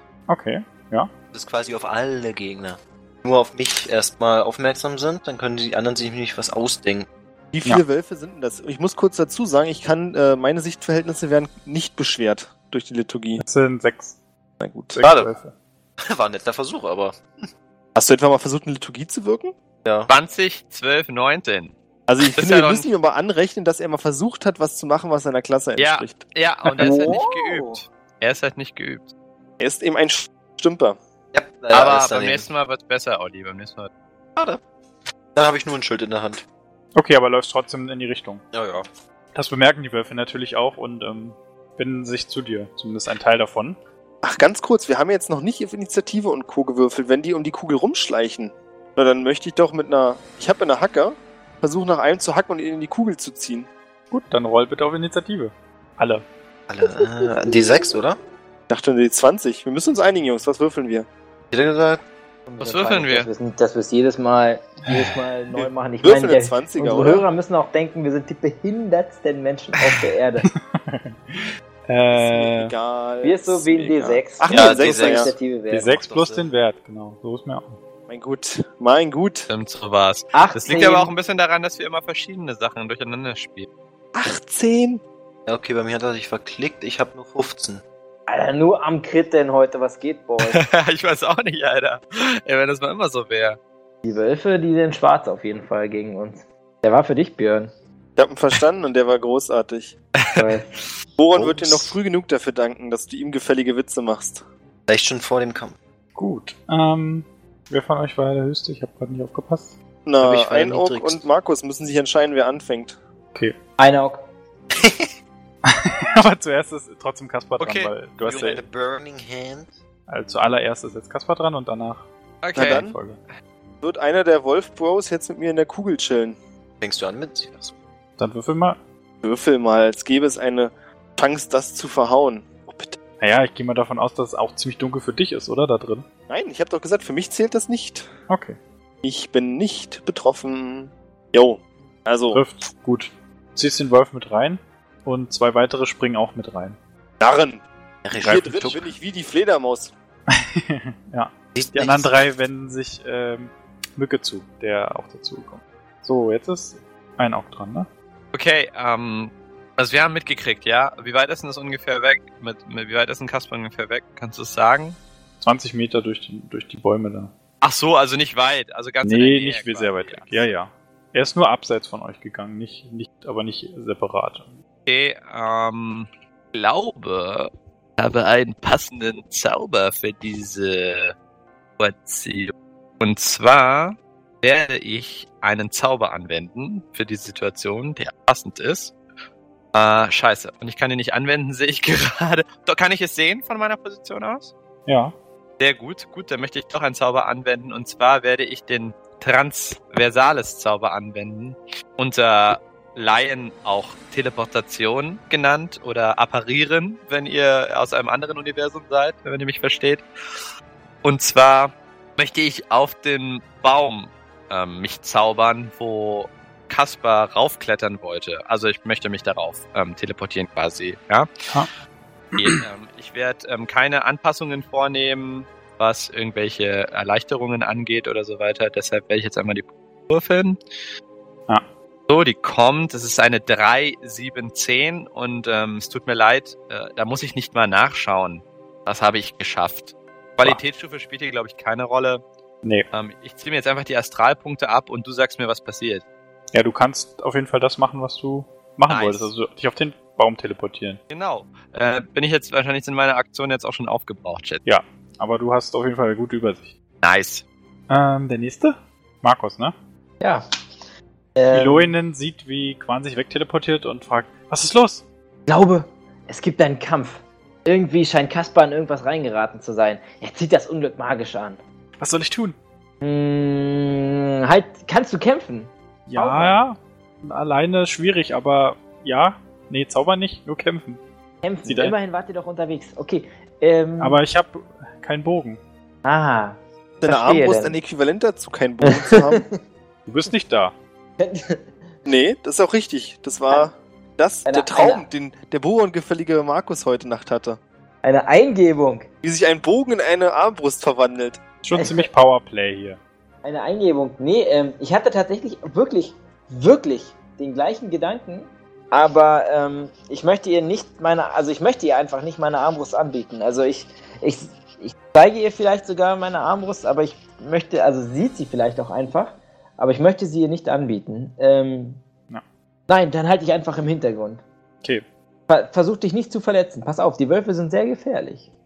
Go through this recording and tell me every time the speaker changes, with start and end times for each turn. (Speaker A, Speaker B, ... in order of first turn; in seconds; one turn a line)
Speaker A: 0.3-1.1
Speaker B: 1.3-7.1
Speaker C: 7.5-13.4
Speaker A: 13.4-14.2
Speaker C: 14.6-15.0
Speaker A: 14.9-15.5
Speaker B: 15.0-15.3
Speaker B: 16.0-17.2
Speaker C: 17.9-19.5
Speaker B: 19.8-20.1
Speaker D: 20.1-22.9
Speaker C: 22.1-26.2
Speaker D: 25.8-29.1
Speaker E: 26.8-27.8
Speaker C: 26.8-27.1
Speaker C: 29.6-31.0
Speaker B: 31.3-32.5
Speaker D: 31.7-33.9
Speaker B: 34.4-34.6
Speaker B: 35.3-36.4
Speaker A: 36.9-38.4
Speaker B: 38.5-38.9
Speaker A: 39.3-43.8
Speaker C: 44.2-53.7
Speaker A: 54.1-56.2
Speaker B: 56.7-58.2
Speaker E: 56.9-57.8
Speaker C: 58.7-61.1
Speaker B: 61.5-62.0
Speaker E: 62.5-70.5
Speaker D: 62.6-63.3
Speaker C: 66.0-67.2
Speaker A: 70.4-72.7
Speaker C: 72.1-75.3
Speaker E: 73.2-76.0
Speaker B: 74.5-75.3
Speaker A: 75.7-77.8
Speaker B: 75.9-76.5
Speaker C: 78.1-79.5
Speaker D: 79.5-83.7
Speaker E: 80.3-81.1
Speaker C: 84.1-85.0
Speaker B: 85.5-87.8
Speaker E: 88.3-90.6
Speaker D: 90.4-93.6
Speaker E: 94.0-97.7
Speaker C: 98.2-100.0
Speaker D: 100.2-100.5
Speaker E: 100.3-100.7
Speaker C: 101.2-104.4
Speaker B: 101.3-102.0
Speaker B: 104.9-105.8
Speaker A: 106.2-109.7
Speaker C: 110.0-113.0
Speaker B: 110.2-111.2
Speaker E: 113.8-114.2
Speaker B: 114.7-115.1
Speaker A: 115.6-118.6
Speaker D: 117.6-117.9
Speaker B: 118.2-119.7
Speaker A: 120.1-122.0
Speaker D: 122.4-122.8
Speaker C: 122.5-123.0
Speaker A: 122.6-123.2
Speaker C: 123.8-126.4
Speaker B: 126.8-127.7
Speaker A: 128.2-128.8
Speaker C: 129.2-133.0
Speaker A: 133.2-136.0
Speaker C: 136.3-138.1
Speaker A: 138.3-138.6
Speaker C: 139.0-142.4
Speaker A: 142.3-146.8
Speaker C: 147.2-147.6
Speaker B: 148.0-148.9
Speaker C: 148.2-149.9
Speaker A: 150.3-157.9
Speaker B: 151.5-152.2
Speaker D: 158.3-165.0
Speaker A: 165.4-167.3
Speaker D: 167.6-170.5
Speaker A: 169.0-174.5
Speaker D: 174.8-181.1
Speaker D: 181.8-188.9
Speaker D: 189.7-194.5
Speaker A: 194.8-195.1
Speaker D: 195.6-210.0
Speaker D: 211.0-221.3
Speaker A: 222.3-222.6
Speaker D: 222.4-230.6
Speaker D: 232.1-242.2
Speaker D: 242.9-246.0
Speaker A: 246.5-251.0
Speaker D: 248.9-249.3
Speaker D: 251.1-254.6
Speaker A: 254.6-256.7
Speaker D: 257.0-257.4
Speaker A: 257.9-259.7
Speaker E: 261.4-261.9
Speaker A: 261.5-265.0
Speaker E: 265.5-271.6
Speaker A: 272.0-272.6
Speaker E: 273.0-276.6
Speaker A: 276.1-281.0
Speaker E: 281.4-284.2
Speaker A: 281.6-281.9
Speaker A: 284.0-285.6
Speaker E: 286.0-287.8
Speaker C: 287.0-289.4
Speaker E: 288.9-289.5
Speaker A: 290.1-290.7
Speaker E: 291.2-291.7
Speaker C: 292.1-297.6
Speaker E: 294.4-295.1
Speaker E: 298.0-299.1
Speaker C: 299.2-301.4
Speaker A: 301.6-303.0
Speaker E: 301.7-302.1
Speaker E: 303.4-322.0
Speaker E: 322.9-324.4
Speaker E: 325.5-328.5